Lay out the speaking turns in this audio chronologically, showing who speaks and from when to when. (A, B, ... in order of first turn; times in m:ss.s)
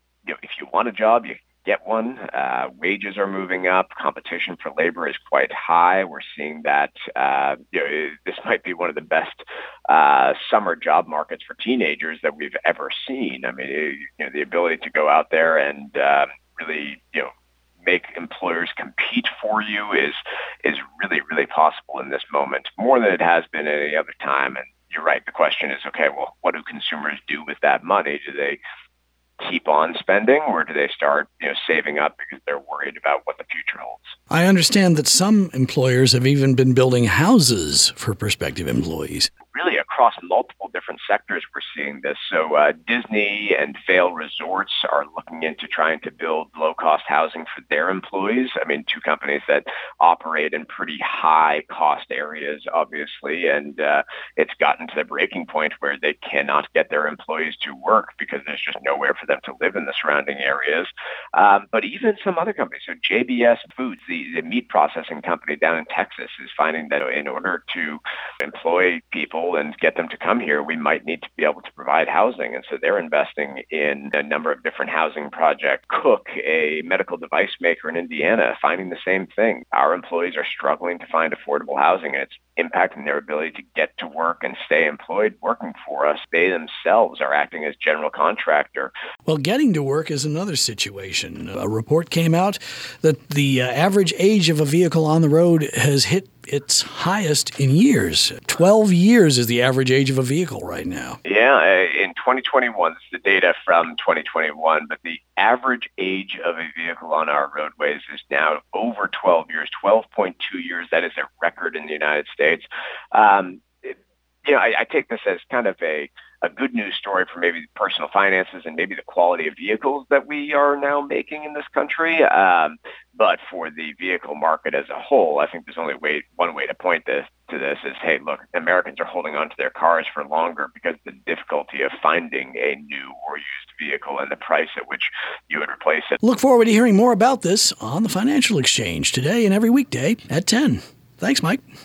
0:00.3-0:17.3 A
0:17.8-0:28.6 A
0:29.4-0:34.1 A
0:34.3-0:39.3 B
0:39.5-1:28.9 A
1:29.3-1:41.2 B
1:41.2-2:16.2 A
2:16.2-2:21.6 B